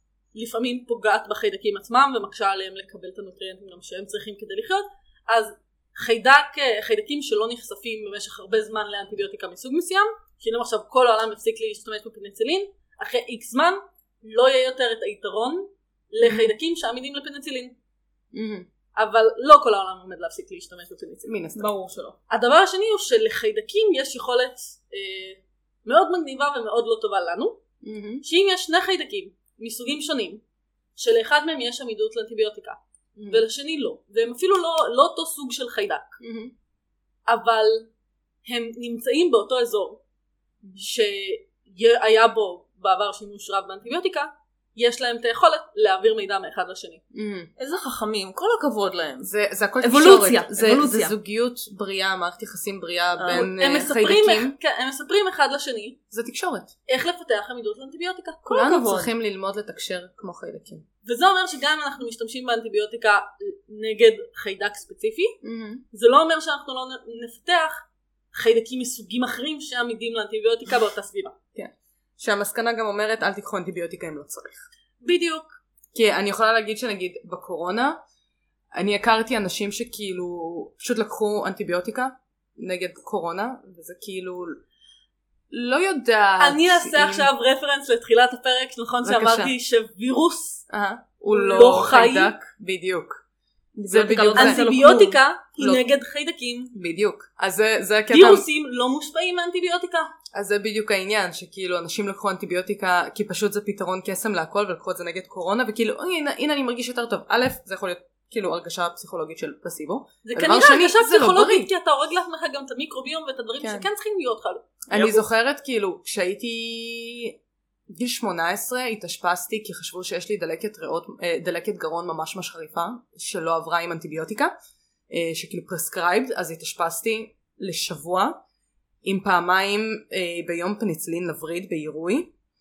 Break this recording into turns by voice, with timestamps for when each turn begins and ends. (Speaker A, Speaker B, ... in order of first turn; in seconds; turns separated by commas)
Speaker A: 0.3-17.8, Speaker B: 16.2-16.5, Speaker B: 18.3-18.7, Speaker A: 19.0-21.3, Speaker B: 21.2-21.7, Speaker C: 21.6-22.2, Speaker A: 22.3-27.6, Speaker B: 27.8-28.2, Speaker A: 28.2-30.4, Speaker A: 31.0-36.2, Speaker B: 33.2-33.4, Speaker B: 36.2-36.5, Speaker A: 37.3-37.9, Speaker A: 38.5-40.0, Speaker A: 40.8-47.0, Speaker B: 47.1-47.5, Speaker C: 47.6-49.3, Speaker B: 49.2-54.6, Speaker C: 49.8-51.1, Speaker C: 53.2-53.5, Speaker A: 53.3-56.0, Speaker B: 56.1-56.7, Speaker A: 56.9-58.5, Speaker B: 58.5-60.8, Speaker C: 58.5-59.1, Speaker A: 61.0-65.4, Speaker B: 65.4-65.8, Speaker A: 65.9-71.3, Speaker B: 71.5-74.6, Speaker A: 75.0-75.5, Speaker B: 75.9-78.0, Speaker B: 78.7-84.6, Speaker B: 85.5-87.3, Speaker A: 86.4-90.6, Speaker B: 89.0-89.5, Speaker B: 90.7-93.2, Speaker A: 91.3-92.3, Speaker C: 93.8-95.2, Speaker B: 93.9-94.6, Speaker A: 94.3-96.8, Speaker B: 95.6-95.8, Speaker B: 96.7-98.5, Speaker A: 98.1-100.1, Speaker B: 100.3-111.7, Speaker A: 110.2-115.3, Speaker B: 113.6-113.9, Speaker B: 114.9-117.4, Speaker B: 117.9-124.5, Speaker B: 125.1-128.4, Speaker B: 129.0-132.3